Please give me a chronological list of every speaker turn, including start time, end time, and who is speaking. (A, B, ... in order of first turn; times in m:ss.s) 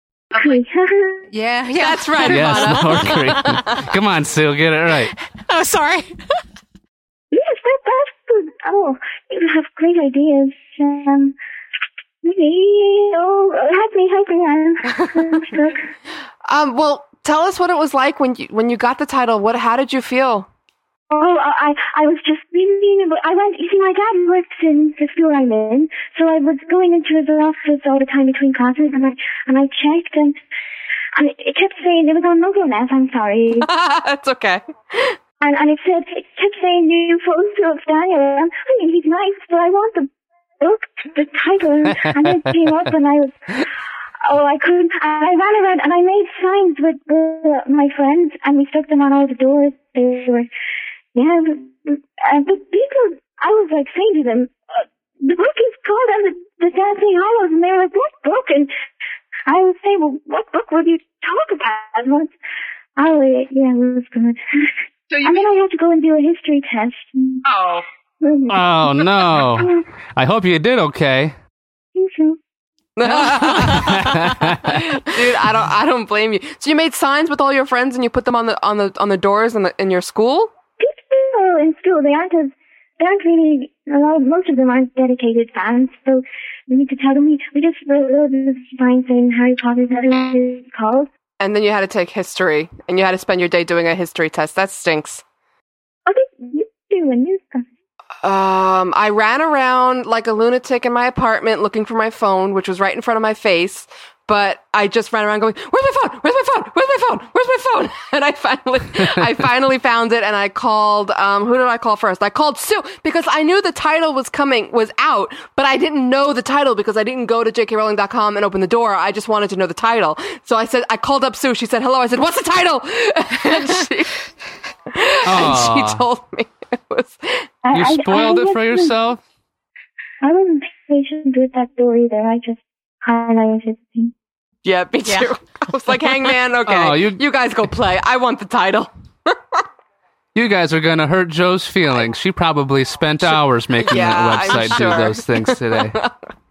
0:00.3-0:01.2 A
0:01.3-0:03.8 B
0:01.8-0:03.8 C
0:02.2-0:05.1 D
0:05.3-0:06.2 B
0:07.3-0:11.3 A
0:12.2-0:15.9 A
0:16.5-0:20.5 C
0:21.1-0:30.4 A
0:31.1-0:33.7 A
0:33.6-0:35.2 C
0:35.4-0:43.6 A
0:41.9-0:42.5 D
0:44.2-0:50.5 A
0:51.1-0:58.7 A
0:59.5-1:02.3 A
1:03.0-1:07.5 A
1:08.2-1:09.0 A
1:08.5-1:11.3 D
1:09.6-1:09.8 A
1:11.9-1:12.4 A
1:13.0-1:14.1 C
1:13.3-1:14.0 B
1:13.7-1:14.8 D
1:14.7-1:20.5 C
1:20.8-1:31.1 A
1:31.4-1:35.2 C
1:36.0-1:37.7 A
1:38.2-2:04.1 C
2:04.9-2:07.5 C
2:05.2-2:06.0 D
2:07.6-2:08.9 A
2:07.7-2:09.2 D
2:10.2-2:14.1 A
2:14.6-2:19.6 C
2:15.0-2:15.3 B
2:16.7-2:17.2 D
2:20.3-2:26.0 D
2:23.8-2:26.1 C